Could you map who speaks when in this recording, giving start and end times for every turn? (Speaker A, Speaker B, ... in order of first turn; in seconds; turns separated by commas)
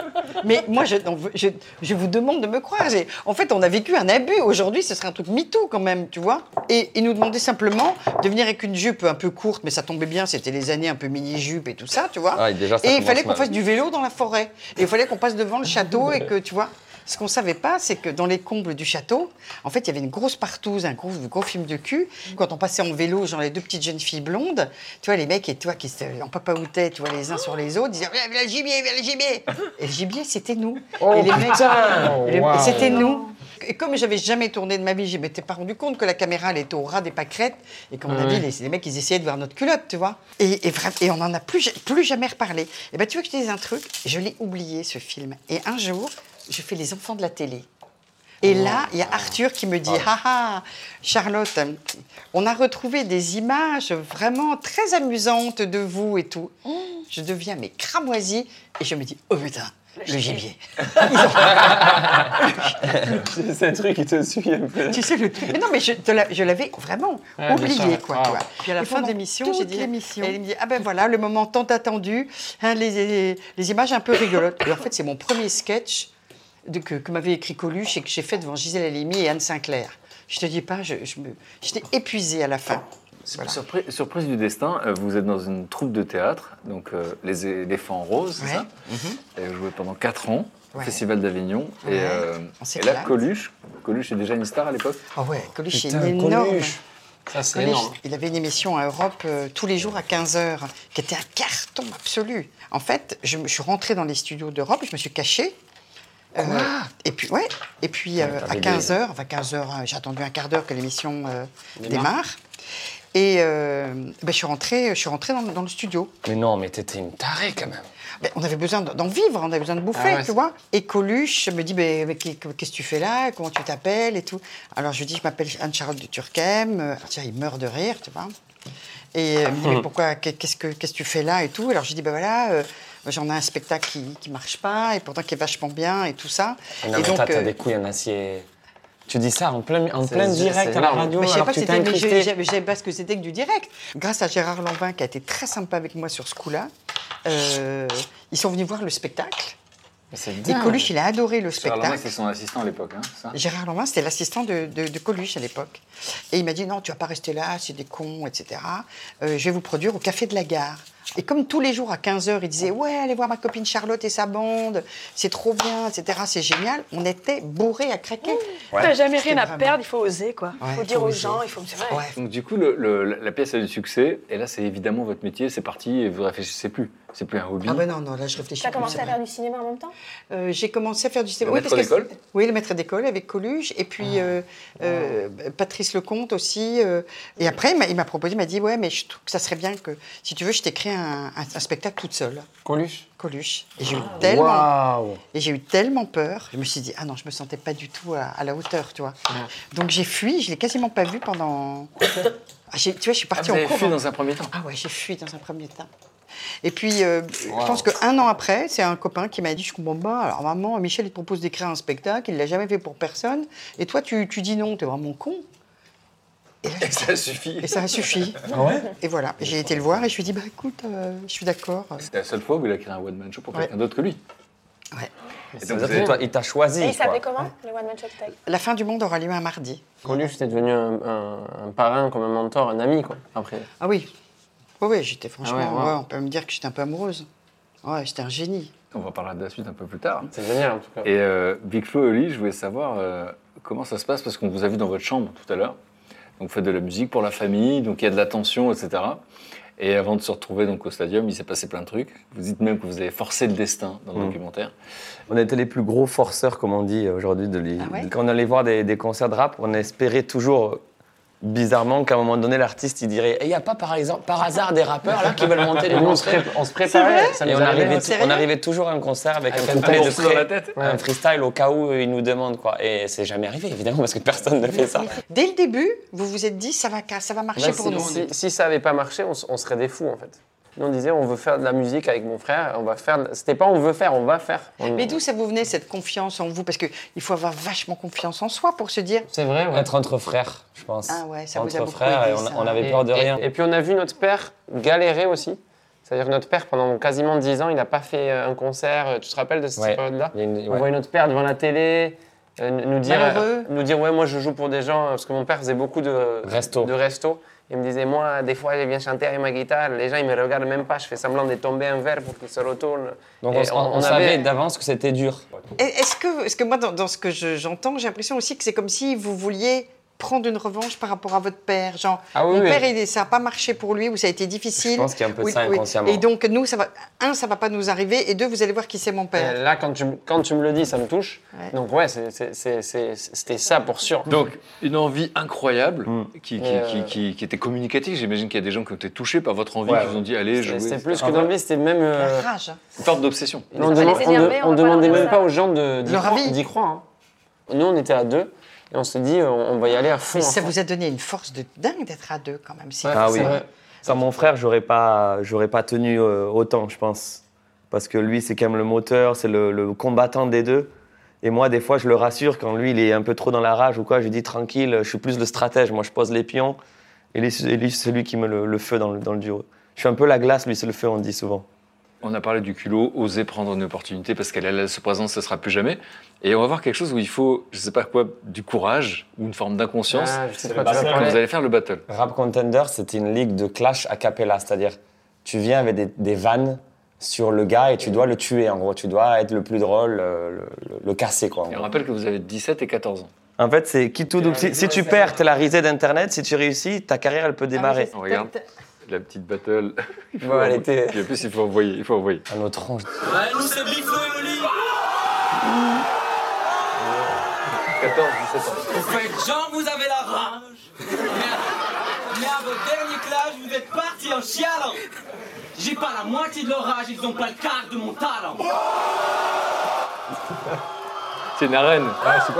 Speaker A: 0.4-47.7, Speaker B: 12.3-13.5, Speaker C: 31.0-33.1, Speaker D: 32.9-33.3, Speaker C: 38.1-38.5, Speaker A: 48.4-51.8, Speaker A: 52.3-56.5, Speaker A: 57.1-63.1, Speaker D: 60.0-60.4, Speaker B: 63.0-63.2, Speaker A: 64.9-76.1, Speaker C: 67.4-68.4, Speaker D: 68.8-69.9, Speaker A: 76.7-83.6, Speaker E: 83.3-88.7, Speaker A: 88.4-89.2, Speaker E: 89.3-95.0, Speaker A: 90.7-91.0, Speaker A: 91.8-93.1, Speaker A: 95.2-96.8, Speaker B: 95.7-96.8, Speaker C: 97.3-98.0, Speaker A: 97.5-105.6, Speaker A: 106.3-112.4, Speaker B: 106.4-106.9, Speaker B: 108.2-108.9, Speaker A: 113.1-116.1, Speaker B: 116.2-117.8, Speaker A: 118.2-128.3, Speaker C: 119.9-120.3, Speaker A: 129.1-137.5, Speaker C: 129.6-129.8, Speaker B: 136.8-138.5, Speaker B: 139.1-142.3, Speaker C: 140.0-141.1, Speaker A: 141.1-146.7, Speaker A: 147.2-149.6, Speaker C: 150.1-150.9, Speaker A: 150.4-152.1, Speaker E: 151.5-153.3, Speaker A: 153.3-169.8, Speaker D: 168.8-172.0, Speaker A: 170.6-172.2, Speaker E: 172.2-177.8, Speaker A: 177.6-179.2, Speaker D: 178.6-179.9, Speaker A: 180.3-192.5, Speaker E: 181.4-182.1, Speaker C: 192.6-193.1, Speaker A: 193.2-194.7, Speaker C: 193.9-195.2, Speaker A: 195.3-199.2, Speaker A: 199.7-201.9, Speaker A: 202.7-204.0, Speaker E: 203.3-204.5, Speaker A: 204.5-205.9, Speaker A: 206.6-215.4, Speaker C: 207.5-207.8, Speaker A: 216.6-222.0, Speaker E: 216.8-218.0, Speaker B: 218.5-218.8, Speaker E: 222.0-224.2, Speaker E: 225.6-226.1, Speaker B: 225.6-227.2, Speaker C: 225.8-226.2, Speaker D: 226.8-228.3, Speaker A: 228.4-230.2, Speaker C: 230.0-233.7, Speaker A: 233.8-234.1, Speaker A: 234.8-237.3, Speaker C: 235.4-236.0, Speaker A: 237.8-238.7, Speaker E: 238.9-240.3, Speaker C: 240.3-241.1, Speaker E: 241.0-245.8, Speaker E: 246.4-249.2, Speaker E: 249.8-254.7, Speaker B: 255.3-260.8, Speaker A: 257.8-258.1, Speaker B: 261.4-266.5, Speaker C: 265.1-268.2, Speaker A: 266.9-268.5, Speaker B: 267.4-275.1, Speaker C: 269.5-270.2, Speaker E: 269.7-270.7, Speaker C: 270.8-271.0, Speaker A: 274.7-278.3, Speaker C: 277.6-285.1, Speaker A: 284.8-289.3, Speaker C: 289.3-289.9, Speaker B: 289.7-293.4, Speaker A: 291.1-292.9, Speaker C: 292.8-314.4, Speaker B: 299.8-300.9, Speaker A: 303.0-303.7, Speaker B: 306.4-306.9, Speaker B: 313.4-315.4, Speaker A: 315.8-329.6, Speaker C: 322.3-322.9, Speaker B: 324.8-326.2, Speaker C: 329.3-334.3, Speaker E: 334.3-341.5, Speaker C: 336.6-337.1, Speaker B: 339.9-340.1, Speaker C: 340.6-342.5, Speaker B: 341.2-341.5, Speaker A: 342.1-342.8, Speaker E: 343.0-344.4, Speaker C: 343.7-347.0, Speaker D: 343.8-345.5, Speaker A: 346.0-346.6, Speaker C: 347.7-350.7, Speaker A: 350.3-353.6, Speaker C: 353.0-353.6, Speaker B: 353.1-360.9, Speaker B: 361.4-366.8, Speaker B: 367.3-371.6, Speaker E: 372.2-382.0, Speaker C: 380.1-381.4, Speaker B: 380.7-381.3, Speaker B: 382.1-391.9, Speaker E: 391.7-393.3, Speaker B: 393.6-398.1, Speaker C: 394.4-395.4, Speaker A: 397.7-398.6, Speaker E: 398.1-398.5, Speaker E: 399.0-402.4, Speaker B: 400.4-401.2, Speaker B: 402.5-403.1, Speaker F: 403.2-404.7, Speaker E: 407.9-409.0, Speaker F: 408.9-411.7, Speaker F: 412.3-415.0, Speaker F: 415.7-418.6, Speaker E: 421.6-422.2